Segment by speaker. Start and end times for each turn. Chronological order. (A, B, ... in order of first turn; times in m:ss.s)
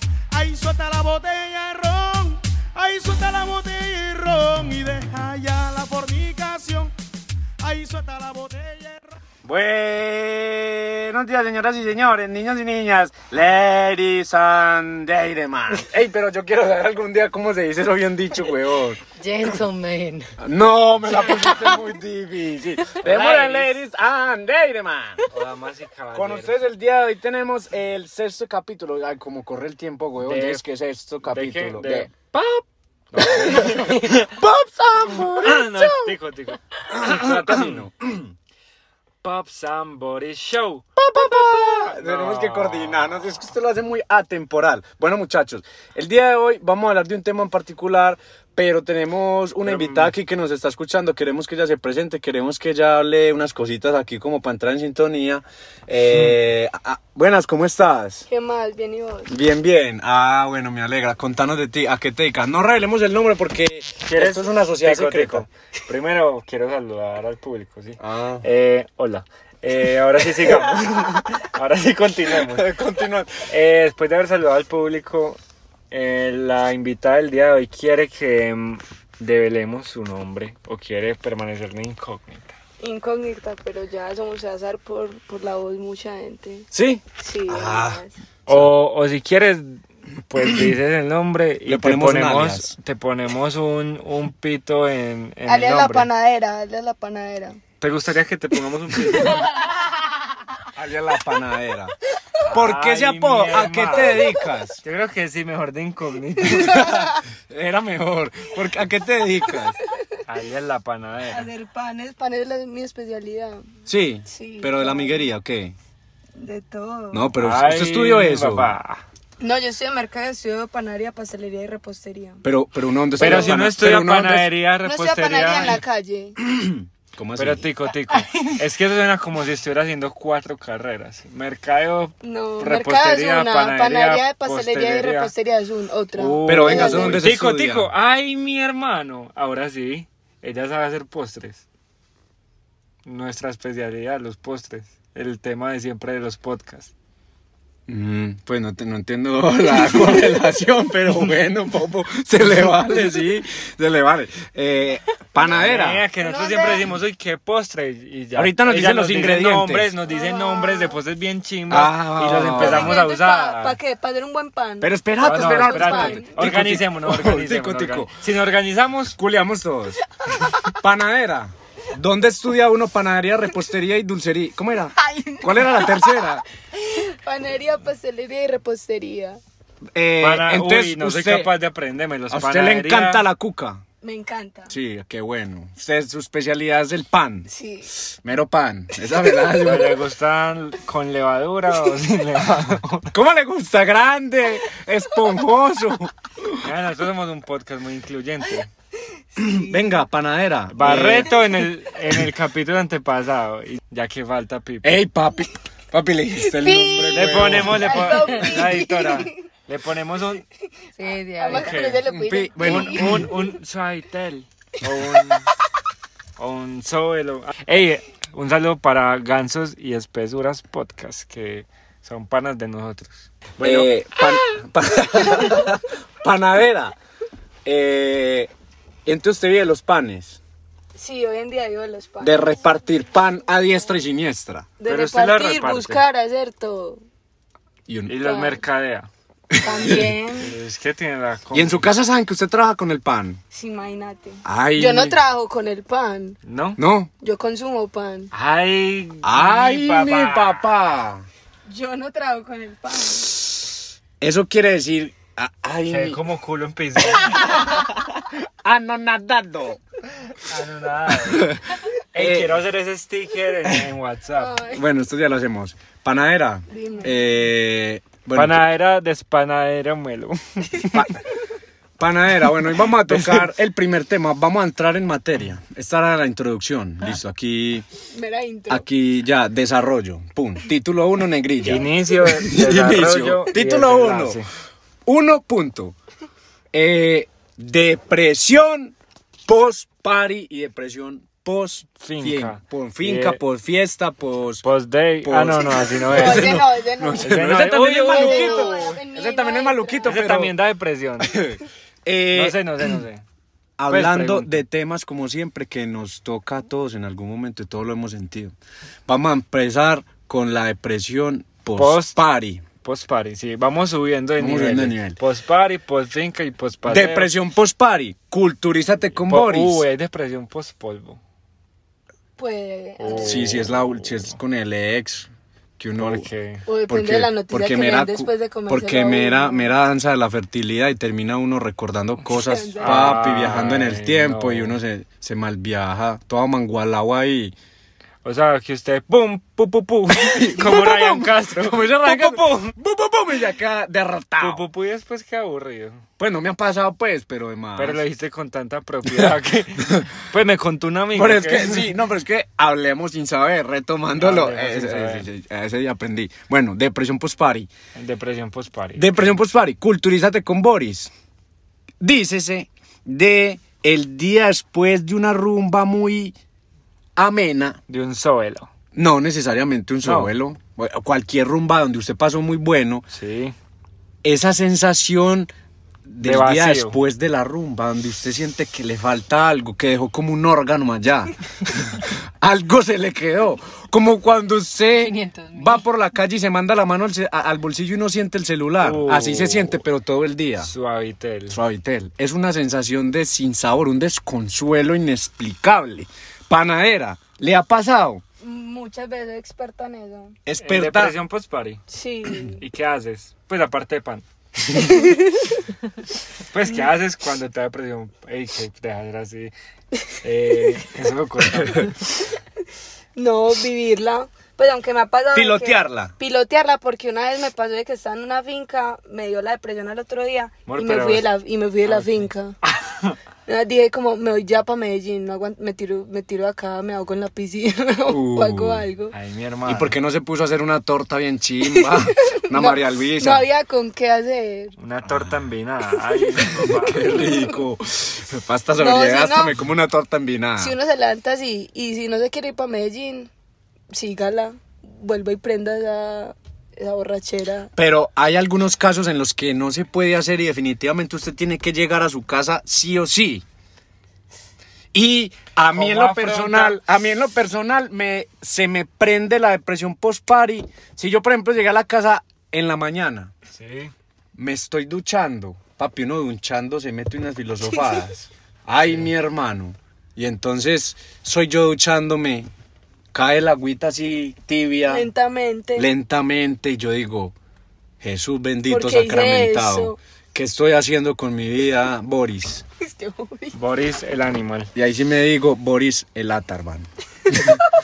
0:00.3-0:06.9 A
0:07.6-0:09.1 A
0:09.4-0:19.0 B
0:19.2-0:20.3 C
0:20.4-0:25.2 B
0:23.0-0:23.8 D
0:25.3-0:26.6 D
0:26.1-0:32.1 B
0:30.2-0:30.6 D
0:31.2-0:34.1 D
0:33.2-0:36.1 B
0:35.3-0:37.8 D
0:36.9-0:38.3 B
0:39.2-0:43.1 D
0:41.0-0:58.2 B
0:49.6-0:50.1 D
0:58.3-0:59.3 E
0:59.3-1:05.4 B
1:04.0-1:12.7 D
1:08.0-1:08.4 B
1:12.5-1:13.4 B
1:13.5-1:15.4 D
1:15.9-1:22.6 D
1:22.8-1:26.7 E
1:26.7-1:28.7 B
1:27.2-1:28.1 E
1:28.5-1:36.1 D
1:31.6-1:32.7 B
1:35.4-1:37.6 E
1:37.8-1:39.5 D
1:40.7-1:41.9 B
1:42.4-1:46.9 D
1:42.5-1:44.8 B
1:46.6-1:49.8 B
1:46.6-1:47.0 E
1:49.8-1:50.2 E
1:50.2-1:51.5 D
1:51.3-1:53.6 E
1:53.9-1:55.7 B
1:54.2-1:55.2 E
1:56.4-1:57.2 E
1:57.1-1:58.7 B
1:57.4-1:59.0 D
1:59.4-2:02.4 E
2:02.4-2:04.5 B
2:03.2-2:03.5 E
2:03.2-2:05.8 D
2:04.8-2:06.4 E
2:06.4-2:07.7 B
2:07.4-2:15.3 D
2:08.1-2:08.5 E
2:12.2-2:17.2 E
2:16.2-2:21.6 D
2:16.4-2:17.9 B
2:23.0-2:26.9 D
2:27.9-2:36.0 B
2:35.5-2:43.8 D
2:36.2-2:36.8 E
2:38.3-2:39.9 B
2:40.0-2:41.0 E
2:41.7-2:43.0 B
2:42.5-2:46.4 E
2:44.8-2:48.1 B
2:45.2-2:49.2 D
2:49.1-2:50.0 B
2:50.2-2:50.7 E
2:50.6-2:56.4 B
2:55.0-2:59.4 E
2:59.9-3:01.5 B
3:00.2-3:03.2 D
3:02.3-3:03.8 B
3:04.0-3:04.7 E
3:04.7-3:07.5 B
3:07.5-3:07.9 E
3:08.0-3:10.0 B
3:09.4-3:13.1 D
3:13.1-3:16.7 B
3:16.6-3:18.7 D
3:19.4-3:21.4 B
3:19.4-3:19.9 E
3:20.7-3:25.0 D
3:24.8-3:28.2 B
3:26.4-3:29.4 E
3:27.0-3:30.4 D
3:30.9-3:33.3 E
3:31.0-3:31.8 C
3:31.5-3:32.0 D
3:32.0-3:33.3 B
3:32.6-3:35.5 D
3:36.4-3:43.9 D
3:43.6-3:46.9 B
3:47.6-3:48.5 B
3:49.0-3:50.4 B
3:50.9-3:52.5 E
3:52.2-3:54.7 B
3:54.8-3:57.0 E
3:54.8-3:56.0 D
3:57.9-3:58.2 B
3:58.1-3:59.1 D
3:58.2-3:58.6 E
3:59.5-4:00.1 B
3:59.6-4:00.5 E
4:00.4-4:01.9 D
4:01.5-4:03.4 B
4:03.5-4:06.4 E
4:04.4-4:05.2 B
4:06.4-4:06.8 D
4:06.8-4:07.1 B
4:07.2-4:08.3 E
4:08.3-4:10.6 D
4:09.2-4:11.2 B
4:11.6-4:13.3 E
4:14.2-4:16.2 B
4:15.9-4:17.6 D
4:17.7-4:19.8 B
4:20.4-4:21.6 D
4:21.3-4:21.6 B
4:22.1-4:24.6 D
4:22.1-4:22.6 B
4:24.4-4:24.8 E
4:24.7-4:28.6 B
4:26.7-4:27.1 E
4:28.3-4:31.0 D
4:32.0-4:37.8 B
4:32.9-4:33.5 D
4:38.1-4:38.8 E
4:38.7-4:44.4 B
4:41.6-4:44.5 D
4:45.0-4:45.9 B
4:46.7-4:48.9 B
4:49.4-4:54.6 B
4:52.0-4:53.4 D
4:54.6-4:56.6 D
4:55.2-5:00.5 B
4:55.9-4:57.4 E
4:57.2-4:59.0 D
4:58.0-5:00.2 E
5:00.0-5:01.4 D
5:01.2-5:02.6 B
5:02.3-5:03.2 D
5:03.8-5:08.5 B
5:03.9-5:04.6 D
5:09.1-5:12.6 B
5:11.8-5:12.2 D
5:12.8-5:17.3 D
5:14.4-5:15.2 B
5:16.8-5:19.8 B
5:19.2-5:21.2 D
5:22.4-5:23.6 E
5:23.0-5:24.3 D
5:23.2-5:25.3 B
5:25.8-5:26.3 B
5:26.0-5:26.6 D
5:26.6-5:29.7 E
5:26.9-5:37.5 B
5:32.3-5:33.3 E
5:32.8-5:34.8 D
5:38.2-5:42.7 D
5:40.1-5:44.6 B
5:44.4-5:46.0 D
5:46.2-5:48.0 B
5:47.8-5:51.9 D
5:49.0-5:50.1 B
5:51.1-5:57.7 B
5:54.2-5:55.2 D
5:57.9-5:59.4 D
5:59.0-6:01.1 B
6:02.0-6:06.3 B
6:07.2-6:07.8 B
6:07.9-6:08.7 D
6:08.9-6:13.0 B
6:10.0-6:10.3 D
6:13.1-6:13.5 D
6:14.2-6:15.5 B
6:16.0-6:30.7 B
6:16.2-6:17.0 D
6:28.8-6:29.8 D
6:30.6-6:31.6 D
6:31.5-6:38.2 B
6:38.4-6:40.4 E
6:40.4-6:41.2 B
6:40.6-6:41.8 D
6:41.9-6:42.6 E
6:42.5-6:45.0 D
6:44.7-6:45.6 E
6:46.5-6:49.5 D
6:50.2-6:52.0 D
6:53.2-7:02.6 E
6:55.3-6:56.1 B
7:00.7-7:01.2 D
7:01.8-7:03.2 D
7:03.4-7:09.1 E
7:08.1-7:08.9 B
7:09.1-7:09.9 D
7:09.6-7:13.4 B
7:11.6-7:14.7 E
7:14.8-7:17.3 D
7:15.0-7:15.5 B
7:16.1-7:17.6 E
7:16.6-7:20.7 B
7:18.8-7:19.5 E
7:20.6-7:23.3 E
7:23.9-7:27.7 E
7:27.8-7:33.4 B
7:34.9-7:43.3 B
7:35.7-7:36.8 D
7:43.5-7:43.9 D
7:44.4-7:52.5 B
7:53.1-7:55.1 B
7:54.9-7:55.9 E
7:55.8-7:57.3 B
7:58.0-8:02.6 B
7:58.7-8:00.0 E
8:02.8-8:03.6 E
8:03.5-8:04.7 D
8:04.7-8:07.6 B